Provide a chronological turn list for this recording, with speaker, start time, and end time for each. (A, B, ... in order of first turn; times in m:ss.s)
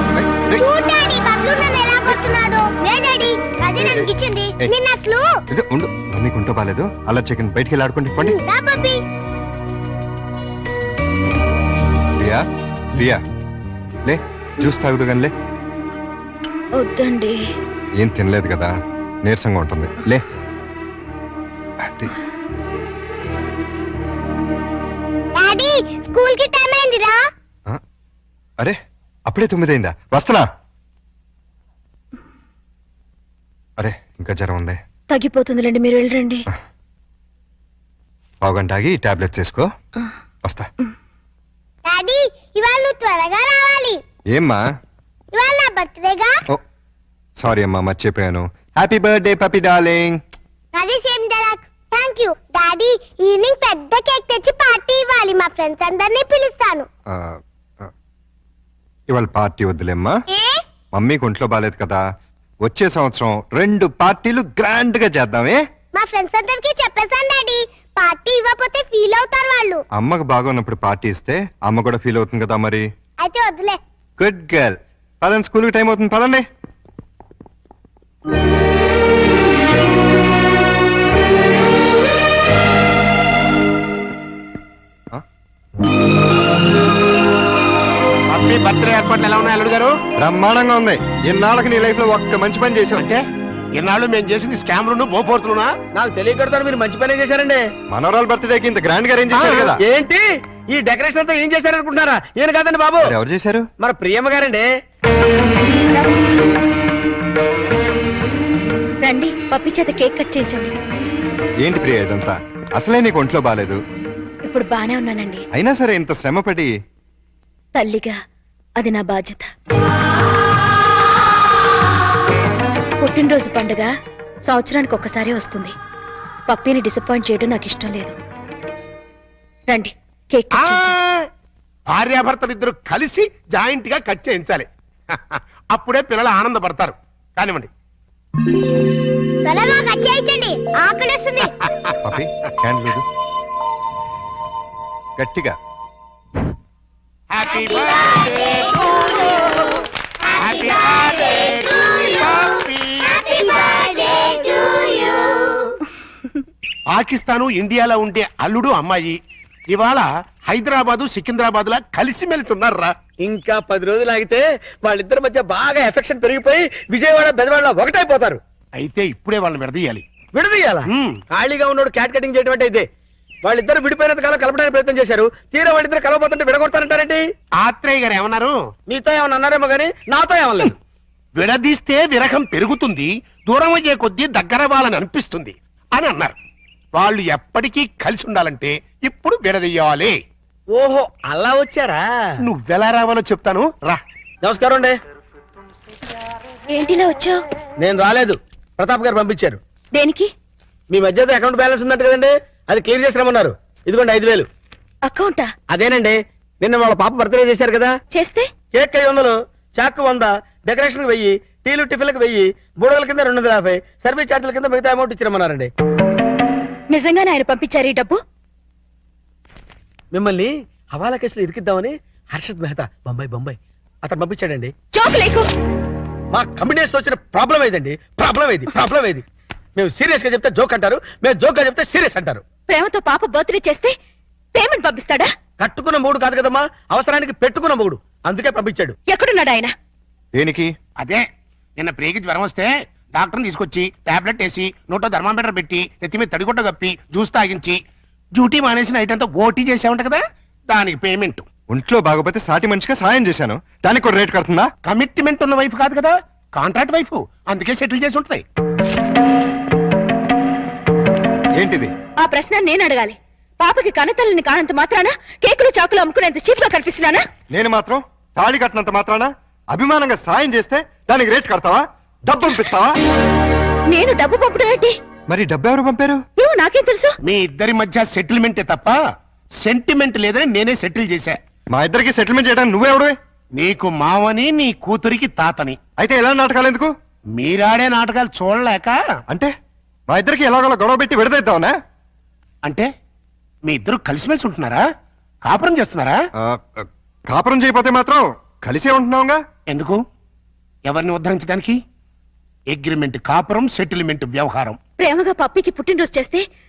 0:00.1-0:00.6 A
0:00.6-0:05.3 B
0:03.8-0:04.7 A
0:05.5-0:08.4 A
0:08.2-0:09.0 B
0:12.1-0:13.2 A
0:14.0-0:15.3 A
0:16.8-0:17.4 C
0:18.0-0:20.2 A
0:21.8-0:22.1 A
0:25.3-0:27.2 B
0:28.6-0:30.4 A
0:33.8-0:34.8 A
0:35.1-0:36.4 C
0:38.4-0:39.7 A
0:41.8-0:44.0 B
0:44.3-0:44.6 A
0:45.3-0:46.3 B
0:47.4-0:50.2 A
0:50.7-0:56.9 B
0:57.1-0:57.9 A
0:59.1-1:00.2 A
1:00.3-1:00.6 B
1:00.9-1:02.0 A
1:02.6-1:05.6 A
1:05.9-1:09.8 B
1:10.0-1:12.8 A
1:13.2-1:13.8 B
1:14.2-1:16.4 A
1:28.3-1:29.9 D
1:30.2-1:33.0 A
1:32.9-1:33.2 D
1:33.8-1:35.8 D
1:35.9-1:37.6 E
1:37.9-1:39.8 A
1:39.4-1:43.1 E
1:43.0-1:43.7 A
1:43.8-1:44.7 E
1:49.0-1:50.8 C
1:51.6-1:53.8 A
1:54.4-1:55.4 C
1:55.5-1:56.7 A
1:57.7-1:58.2 C
1:58.8-1:59.5 C
2:03.0-2:03.9 C
2:04.4-2:05.7 C
2:06.5-2:08.2 C
2:09.7-2:11.0 C
2:10.6-2:11.3 D
2:11.9-2:17.7 D
2:19.4-2:21.5 B
2:22.0-2:23.0 A
2:25.2-2:25.5 A
2:27.3-2:29.7 D
2:30.4-2:34.0 D
2:34.2-2:35.6 E
2:36.9-2:39.2 D
2:39.7-2:42.9 D
2:43.2-2:48.4 E
2:48.8-2:50.0 D
2:50.3-2:52.8 E
2:50.9-2:51.2 D
2:53.4-2:57.2 E
2:57.6-2:58.5 D
2:58.9-3:00.8 E
3:01.4-3:06.3 D
3:06.9-3:10.1 D
3:10.7-3:12.0 E
3:12.4-3:14.0 D
3:14.4-3:14.9 E
3:16.7-3:17.4 C
3:17.8-3:19.6 E
3:19.9-3:20.3 C
3:20.9-3:24.5 E
3:25.0-3:25.5 C
3:25.7-3:27.9 E
3:28.1-3:28.5 C
3:28.7-3:35.7 E
3:36.9-3:38.2 C
3:40.1-3:44.7 E
3:44.9-3:45.5 C
3:46.3-3:49.2 E
3:49.8-3:52.4 E
3:52.7-3:53.9 C
3:54.5-3:55.3 C
3:55.6-3:59.0 E
3:59.1-3:59.7 C
4:00.3-4:00.7 A
4:01.0-4:01.2 D
4:01.8-4:07.8 D
4:08.4-4:11.4 D
4:11.7-4:14.7 A
4:14.8-4:18.4 D
4:21.6-4:21.9 A
4:22.2-4:27.2 C
4:27.5-4:32.9 A
4:33.9-4:34.9 C
4:35.3-4:36.2 A
4:36.4-4:37.1 C
4:37.2-4:39.0 D
4:39.6-4:41.4 D
4:41.7-4:43.1 A
4:43.6-4:45.8 D
4:46.0-4:46.9 A
4:47.4-4:49.0 D
4:50.1-4:51.7 A
4:53.7-4:54.8 D
4:55.4-4:56.2 D
4:56.4-4:59.4 A
4:59.7-5:00.0 D
5:00.9-5:01.8 D
5:02.7-5:04.8 D
5:05.0-5:06.4 C